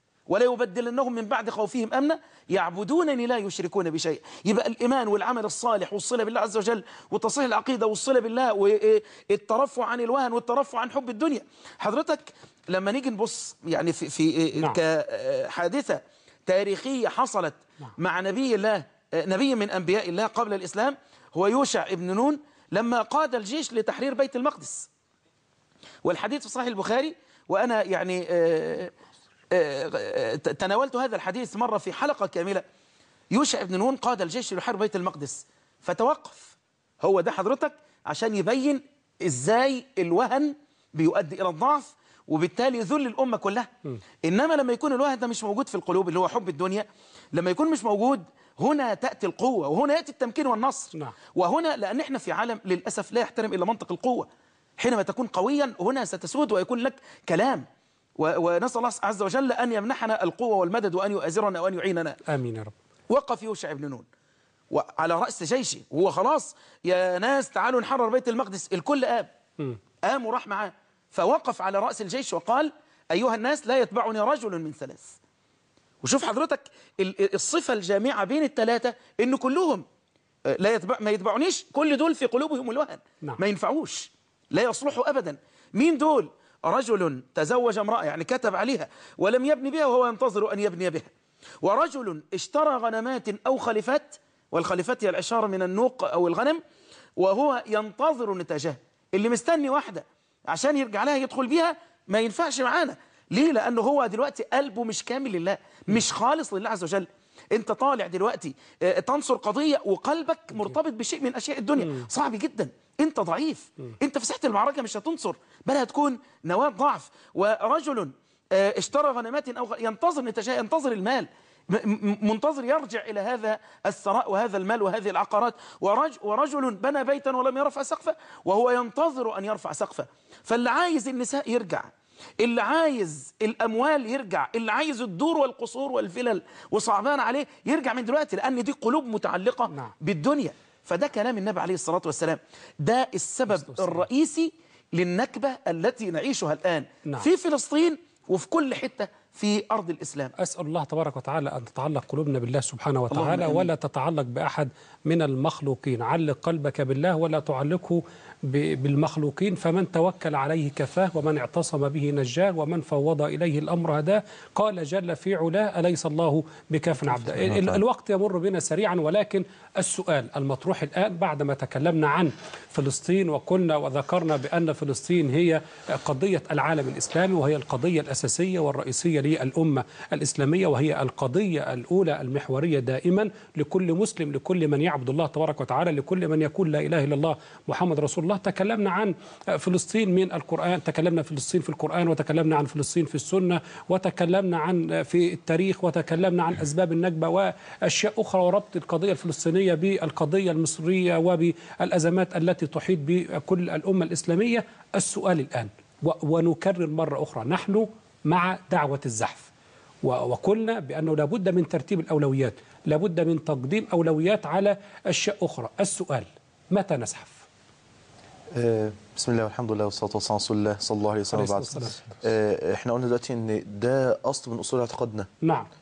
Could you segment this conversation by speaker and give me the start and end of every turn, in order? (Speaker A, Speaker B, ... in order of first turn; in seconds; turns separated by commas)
Speaker A: 0.3-24.9, Speaker A: 26.0-28.9, Speaker A: 29.5-32.6, Speaker A: 33.3-43.7, Speaker A: 44.2-54.3, Speaker A: 54.8-57.6, Speaker A: 58.2-62.2, Speaker B: 62.3-62.7, Speaker A: 63.1-64.1, Speaker A: 64.7-69.3, Speaker A: 70.0-75.2, Speaker A: 76.0-79.8, Speaker A: 80.6-91.1, Speaker A: 91.6-96.6, Speaker A: 97.2-131.9, Speaker B: 111.8-112.1, Speaker A: 132.4-150.3, Speaker B: 143.5-144.1, Speaker B: 150.4-209.5, Speaker A: 153.1-153.7, Speaker B: 210.0-217.4, Speaker C: 218.5-225.3, Speaker B: 221.3-222.0, Speaker B: 225.4-225.7